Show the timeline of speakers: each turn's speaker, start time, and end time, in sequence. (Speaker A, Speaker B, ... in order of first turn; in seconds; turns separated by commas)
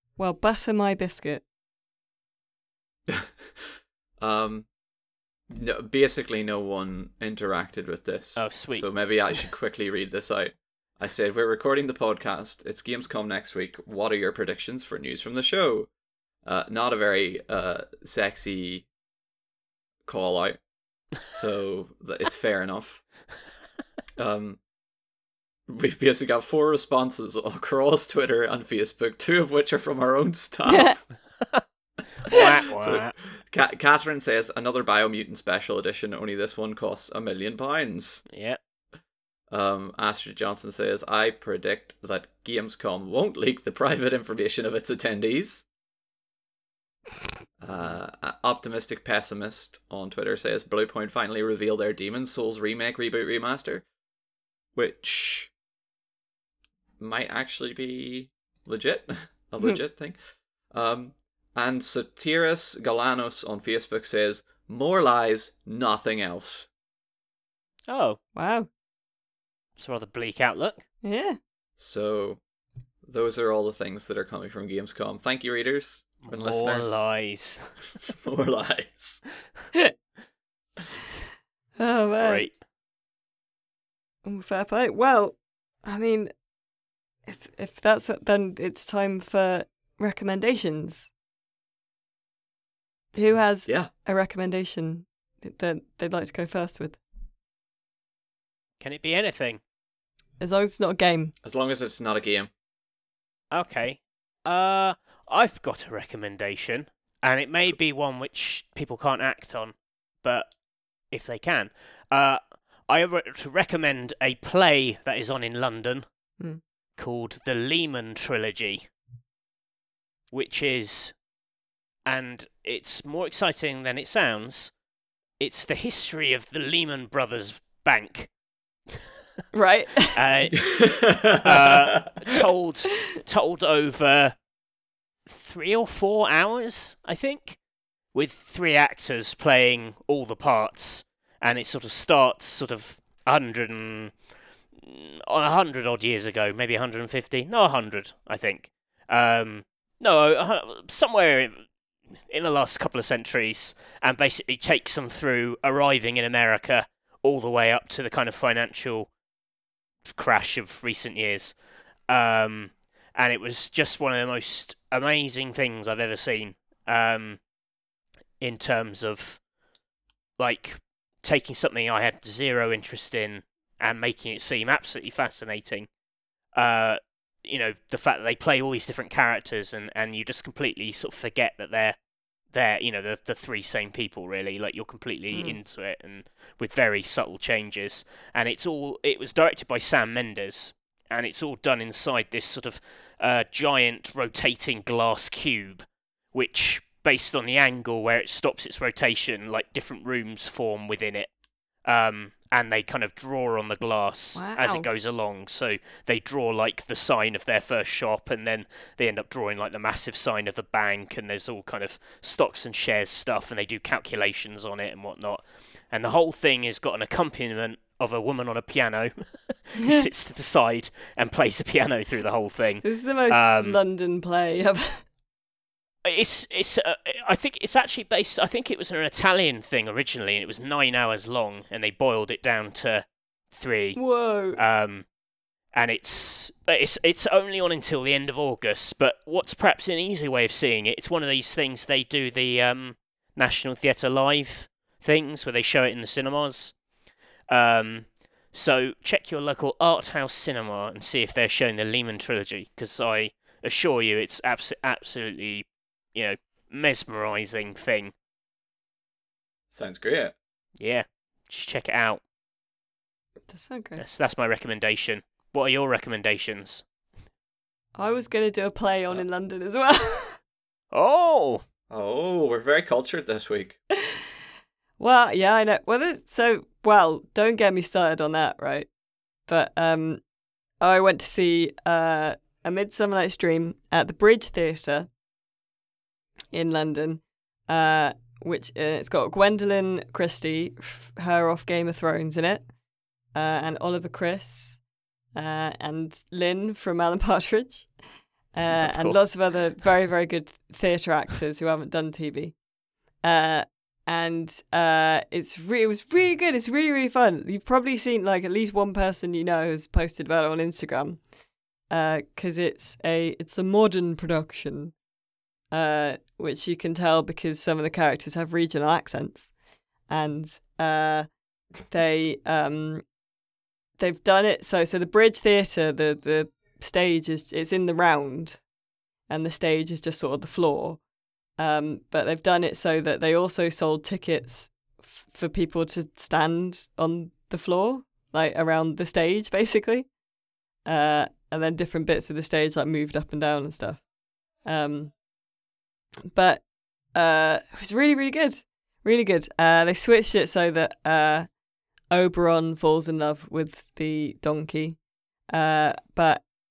Speaker A: 0.2-1.4, Speaker B: 3.1-4.7, Speaker B: 5.5-15.9, Speaker C: 8.4-9.2, Speaker B: 16.4-18.9, Speaker B: 20.1-20.6, Speaker B: 21.2-23.2, Speaker B: 24.2-24.6, Speaker B: 25.7-31.2, Speaker A: 30.7-31.0, Speaker C: 32.3-33.1, Speaker B: 32.3-38.3, Speaker C: 38.3-38.6, Speaker B: 39.5-45.7, Speaker B: 47.6-53.9, Speaker C: 47.7-48.0, Speaker B: 54.8-55.5, Speaker B: 57.0-60.2, Speaker B: 60.7-66.7, Speaker C: 67.9-68.2, Speaker A: 68.3-68.7, Speaker C: 69.8-70.8, Speaker A: 71.0-71.4, Speaker B: 71.8-72.4, Speaker B: 73.0-77.0, Speaker C: 76.2-77.8, Speaker B: 78.0-79.2, Speaker A: 81.8-82.5, Speaker C: 82.2-82.6, Speaker A: 84.2-86.3, Speaker A: 87.3-91.1, Speaker A: 93.1-97.0, Speaker C: 98.8-99.6, Speaker A: 100.4-101.3, Speaker B: 101.4-102.5, Speaker C: 103.5-110.6, Speaker C: 111.1-116.4, Speaker C: 117.0-118.9, Speaker C: 120.3-121.2, Speaker C: 122.1-124.8, Speaker C: 125.4-128.3, Speaker A: 129.5-130.2, Speaker C: 130.1-134.4, Speaker B: 130.6-132.1, Speaker C: 135.3-159.2, Speaker C: 160.0-167.5, Speaker C: 168.4-169.5, Speaker C: 170.4-175.9, Speaker C: 176.6-223.8, Speaker A: 185.3-185.6, Speaker A: 204.4-204.8, Speaker A: 219.8-220.1, Speaker A: 222.8-225.1, Speaker C: 226.0-235.1, Speaker A: 234.0-234.6, Speaker C: 235.7-246.8, Speaker C: 247.5-258.1, Speaker B: 259.7-260.3, Speaker C: 260.8-262.2, Speaker A: 263.5-264.0, Speaker C: 264.0-266.9, Speaker A: 267.9-270.4, Speaker C: 270.9-271.6, Speaker B: 271.9-273.8, Speaker A: 275.0-278.9, Speaker A: 279.5-280.2, Speaker A: 280.8-285.1, Speaker A: 286.5-292.7, Speaker A: 293.3-297.9, Speaker A: 298.5-302.6, Speaker C: 298.8-299.4, Speaker A: 303.2-311.3, Speaker A: 311.9-315.0, Speaker A: 315.7-319.5, Speaker A: 320.1-323.1, Speaker A: 324.0-328.7, Speaker A: 329.3-331.0, Speaker A: 331.6-340.1, Speaker A: 340.8-344.1, Speaker A: 344.6-345.2, Speaker A: 346.3-351.6, Speaker A: 352.1-356.5